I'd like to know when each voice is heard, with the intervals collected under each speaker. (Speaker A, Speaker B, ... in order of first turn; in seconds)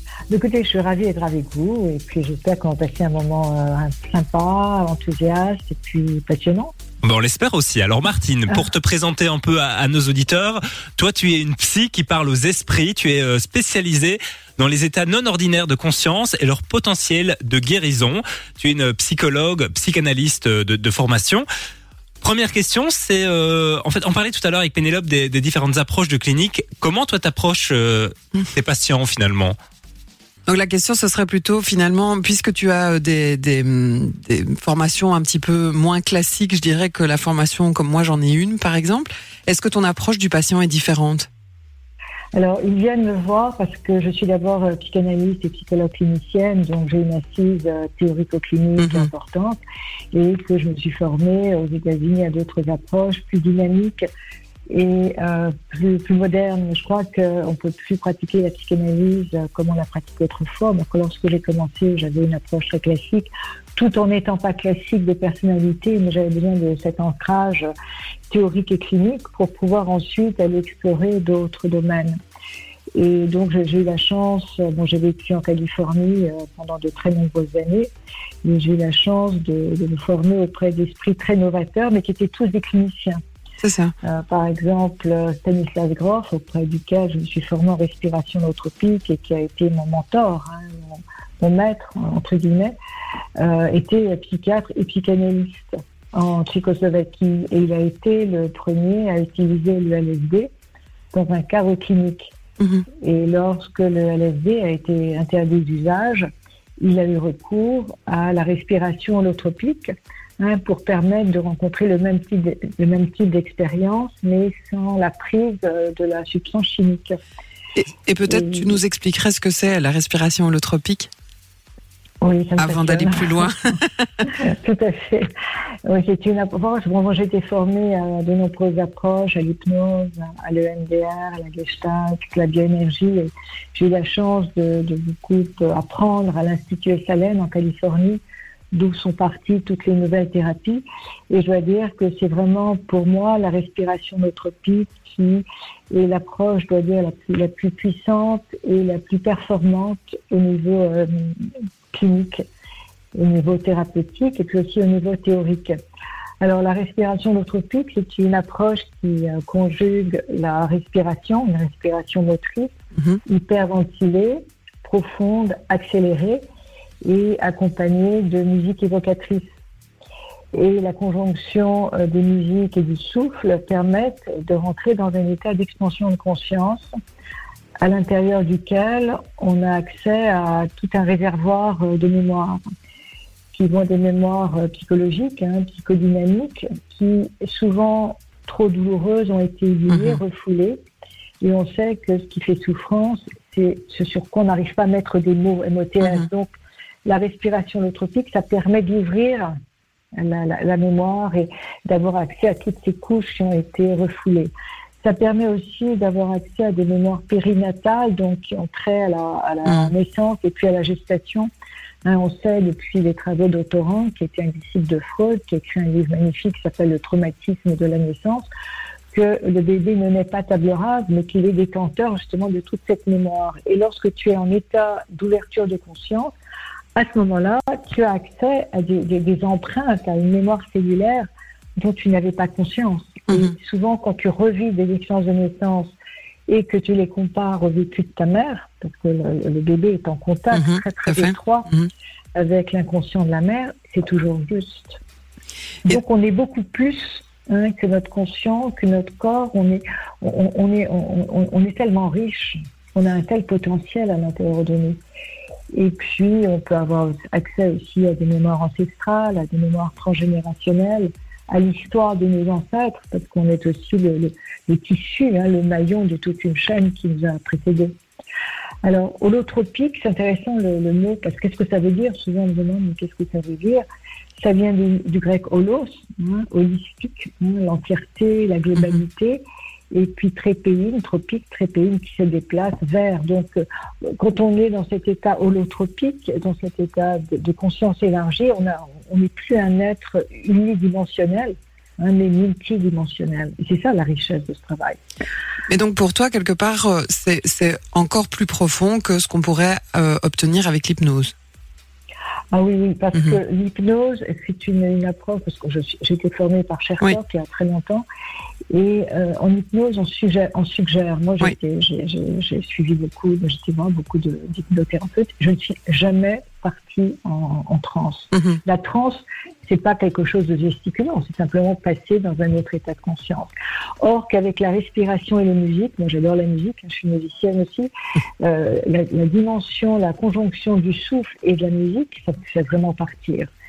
Speaker A: 0.3-6.7, 42.4-49.6, 50.1-54.0, 54.7-67.7, 68.3-72.2, 73.0-77.9, 78.4-83.2, 84.0-92.8, 93.4-100.5, 101.1-102.3, 103.0-106.3, 106.8-117.2, 118.3-118.7, 122.2-123.8, 124.3-125.3, 125.9-151.3, 151.9-152.4, 153.2-155.8, 156.4-162.7, 163.3-166.4, 167.0-169.4, 170.5-176.9, 177.8-182.6, 183.5-190.8, 191.4-199.5, 200.2-211.5, 212.0-218.5, 219.1-226.3, 226.9-235.9, 236.5-241.7, 242.4-245.0, 245.9-255.0, 255.7-268.0, 268.8-273.8, 274.4-295.0, 302.5-308.1, 308.7-323.5, 324.0-333.5
Speaker B: 7.0-21.5, 22.2-29.6
Speaker C: 30.5-41.3, 48.8-49.1, 83.6-83.9, 102.6-102.9, 117.8-121.1, 122.6-124.1, 189.9-190.2, 209.7-209.9, 240.5-241.9, 295.7-301.3, 318.3-318.6